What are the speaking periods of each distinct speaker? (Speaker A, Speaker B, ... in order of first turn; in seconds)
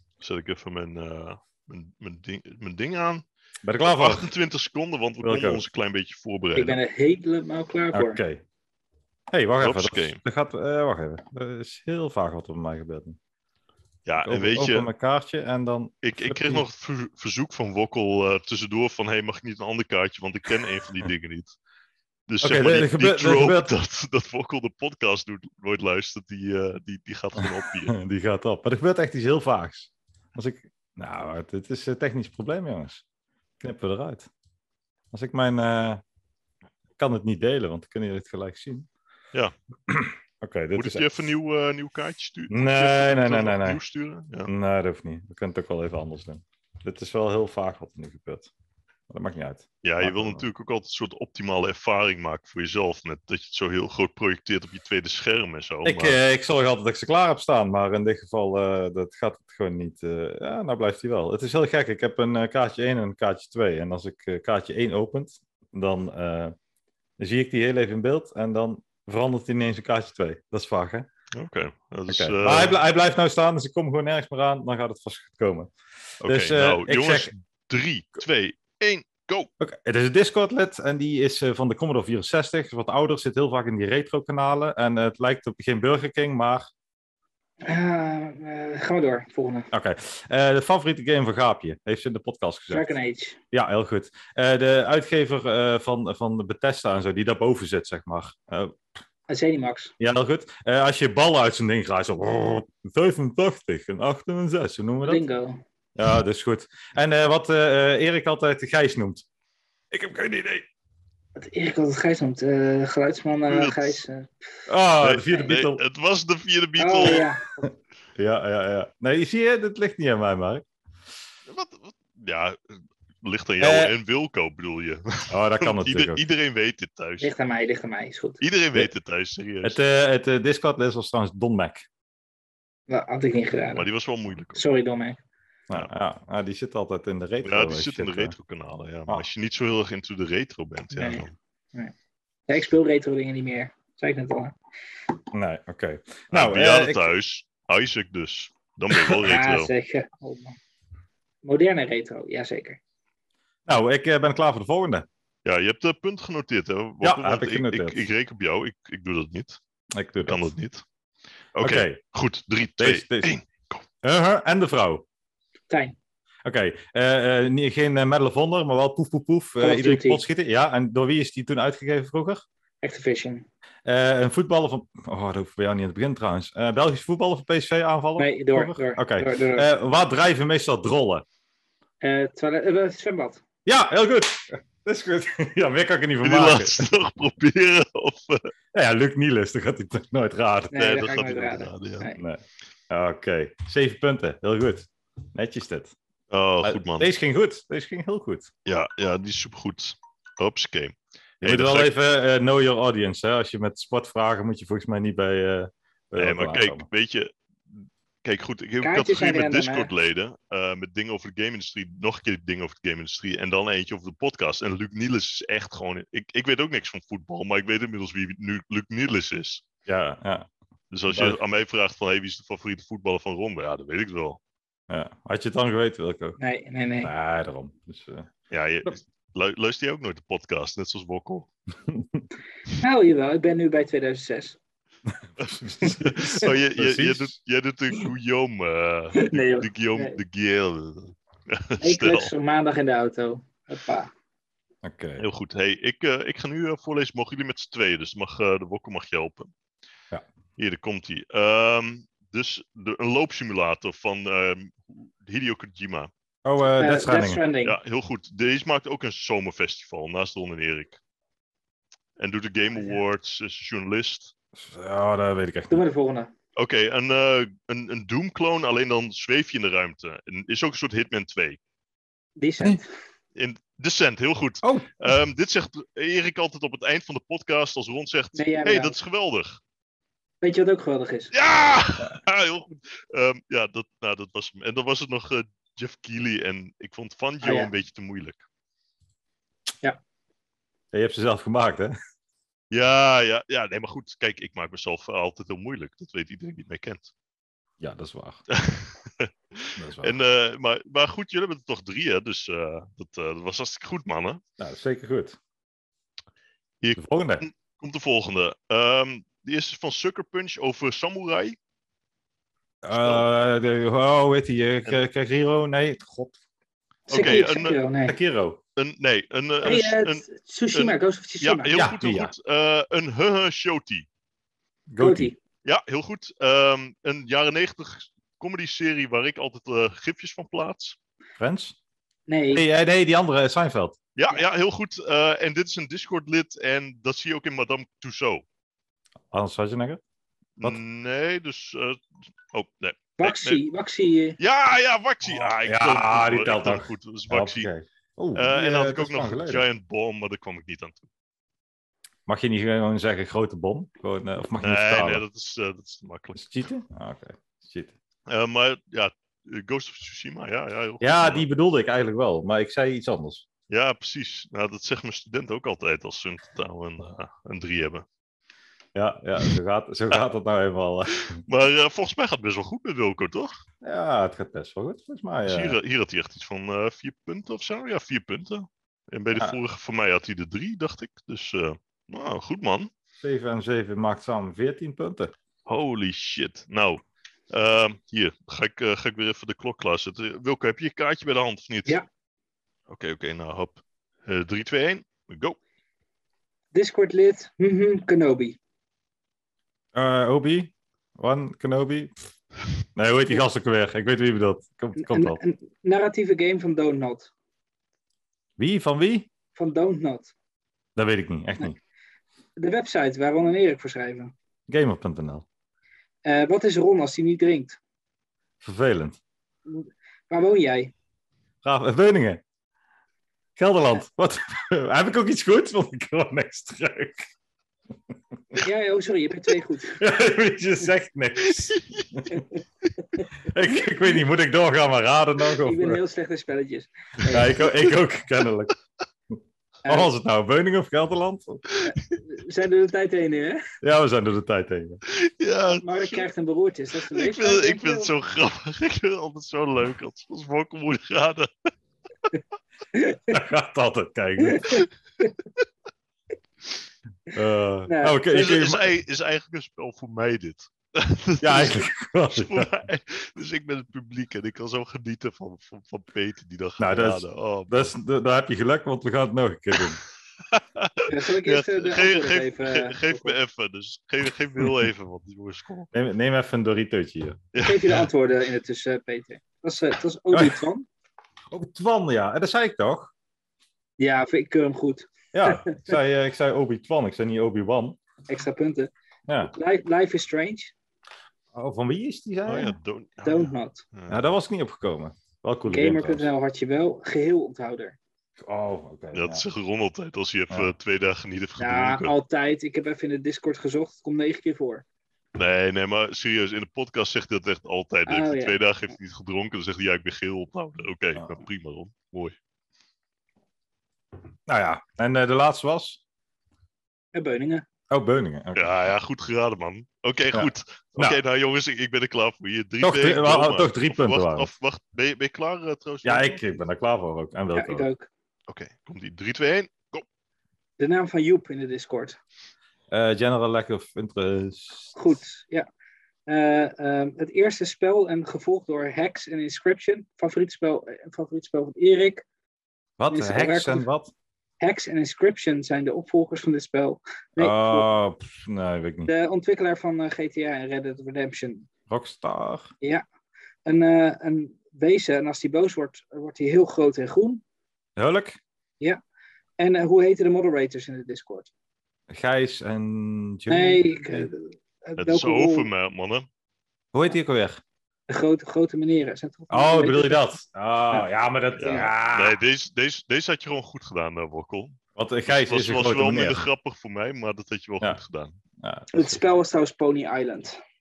Speaker A: 0.2-3.2, 3.9-6.8, 9.6-10.2, 14.1-14.9, 16.0-21.6, 22.3-28.0, 40.8-44.5, 49.8-56.2, 71.3-72.8, 76.2-79.5, 113.5-114.0, 115.0-117.3, 121.5-127.3, 128.4-129.8, 133.7-134.6, 137.4-141.3, 146.3-149.7, 155.4-159.6, 160.3-160.8, 161.5-163.8, 186.2-188.4, 190.8-192.1, 196.3-197.1, 198.7-201.9, 206.2-219.7, 220.9-224.4, 228.5-231.5, 235.4-242.3, 245.2-249.5, 250.6-256.1, 257.6-261.0, 262.2-264.3, 266.6-271.6, 273.4-279.6, 281.3-288.4, 292.7-297.1, 298.5-304.4, 306.8-311.6, 312.9-313.2, 317.1-317.8, 318.8-324.1, 325.6-331.0, 334.2-338.4, 340.6-343.6, 344.4-347.7, 348.4-351.1, 354.6-356.6, 358.3-361.5, 363.7-368.1, 371.3-373.6, 375.5-382.9, 385.7-392.0, 392.9-395.6, 431.5-432.1, 445.1-446.3, 447.1-451.5, 458.3-467.9, 470.5-475.9, 477.5-478.1, 492.5-494.2, 499.1-502.1, 505.4-512.4, 518.5-526.4, 528.5-530.0, 565.0-566.3, 571.6-578.4
Speaker B: 3.6-4.3, 5.2-5.6, 7.9-8.4, 9.3-13.2, 14.2-16.6, 22.4-23.7, 27.4-33.0, 33.6-34.3, 35.1-36.0, 37.0-38.9, 39.9-41.3, 42.5-43.8, 44.5-48.5, 49.1-50.5, 55.9-66.5, 67.2-71.1, 72.1-77.3, 79.6-86.7, 89.7-92.9, 93.5-98.8, 100.0-105.2, 106.0-109.2, 109.9-110.7, 114.7-115.8, 117.6-120.7, 123.6-123.9, 125.3-126.2, 129.6-131.8, 135.7-138.4, 145.3-147.1, 153.7-155.1, 157.0-158.0, 159.9-160.5, 161.6-162.0, 162.8-163.3, 164.0-165.0, 166.4-172.4, 173.8-181.2, 183.7-186.9, 188.7-190.8, 192.2-195.9, 196.6-198.5, 201.4-206.9, 219.9-220.5, 221.1-221.4, 224.9-226.4, 227.0-228.3, 231.9-232.2, 235.3-237.3, 244.8-245.2, 256.4-257.4, 264.6-265.8, 274.6-275.1, 290.9-291.9, 297.8-298.4, 299.8-300.2, 304.6-305.4, 307.0-307.4, 312.8-316.4, 318.1-318.6, 321.7-322.3, 324.9-325.3, 331.4-331.8, 332.5-334.0, 339.3-340.0, 345.3-349.6, 352.3-355.2, 356.4-357.9, 361.0-363.4, 368.9-371.4, 373.8-375.8, 383.2-385.3, 399.9-402.1, 402.9-405.4, 408.6-409.3, 411.0-411.8, 414.7-415.4, 418.6-419.2, 421.6-422.4, 423.6-427.3, 430.0-432.4, 433.4-436.0, 437.3-438.7, 439.3-441.6, 443.8-445.0, 453.3-454.8, 457.3-458.9, 461.4-462.8, 466.8-470.0, 474.6-474.9, 475.9-477.4, 480.3-480.6, 481.5-483.1, 485.3-488.0, 491.5-492.8, 494.1-496.3, 498.4-499.4, 514.5-516.0, 517.9-518.7, 520.3-521.2, 522.8-524.5, 526.0-527.9, 532.9-535.2, 543.0-544.1, 547.4-549.1, 551.9-552.7, 558.0-558.4, 562.1-564.3, 566.9-567.6, 569.5-572.4, 575.0-576.5, 578.6-579.2
Speaker C: 6.6-8.2, 87.6-89.7, 92.7-93.4, 99.3-99.9, 105.0-105.6, 111.4-114.3, 116.8-117.5, 127.2-128.4, 132.9-133.9, 134.6-135.2, 141.0-141.9, 142.5-144.6, 149.2-150.6, 151.4-152.8, 165.7-166.0, 169.6-170.2, 172.8-173.5, 178.2-179.7, 182.0-183.4, 190.7-192.2, 208.8-209.9, 226.4-227.1, 232.8-234.6, 239.2-240.2, 241.8-244.1, 256.8-257.8, 265.7-266.3, 272.4-272.9, 278.3-279.0, 280.4-281.3, 287.4-287.7, 317.1-318.2, 319.6-321.8, 325.0-325.4, 332.3-332.6, 343.2-344.4, 396.7-398.6, 405.0-407.3, 409.6-410.3, 412.6-414.3, 416.2-417.8, 419.7-420.9, 428.6-430.0, 435.6-437.9, 439.9-440.1, 441.9-443.6, 445.7-448.1, 452.9-453.4, 454.4-455.3, 457.9-458.5, 471.1-473.4, 477.6-480.9, 484.0-485.9, 488.3-488.9, 489.5-490.7, 493.2-493.8, 495.7-498.0, 501.6-504.9, 508.1-508.6, 517.1-517.7, 527.5-528.1, 530.8-532.2, 535.0-535.7, 536.3-542.2, 543.1-543.9, 544.6-547.9, 549.1-551.7, 553.7-557.4, 559.6-561.5, 563.5-565.7, 568.1-570.2, 570.9-571.9, 578.9-580.6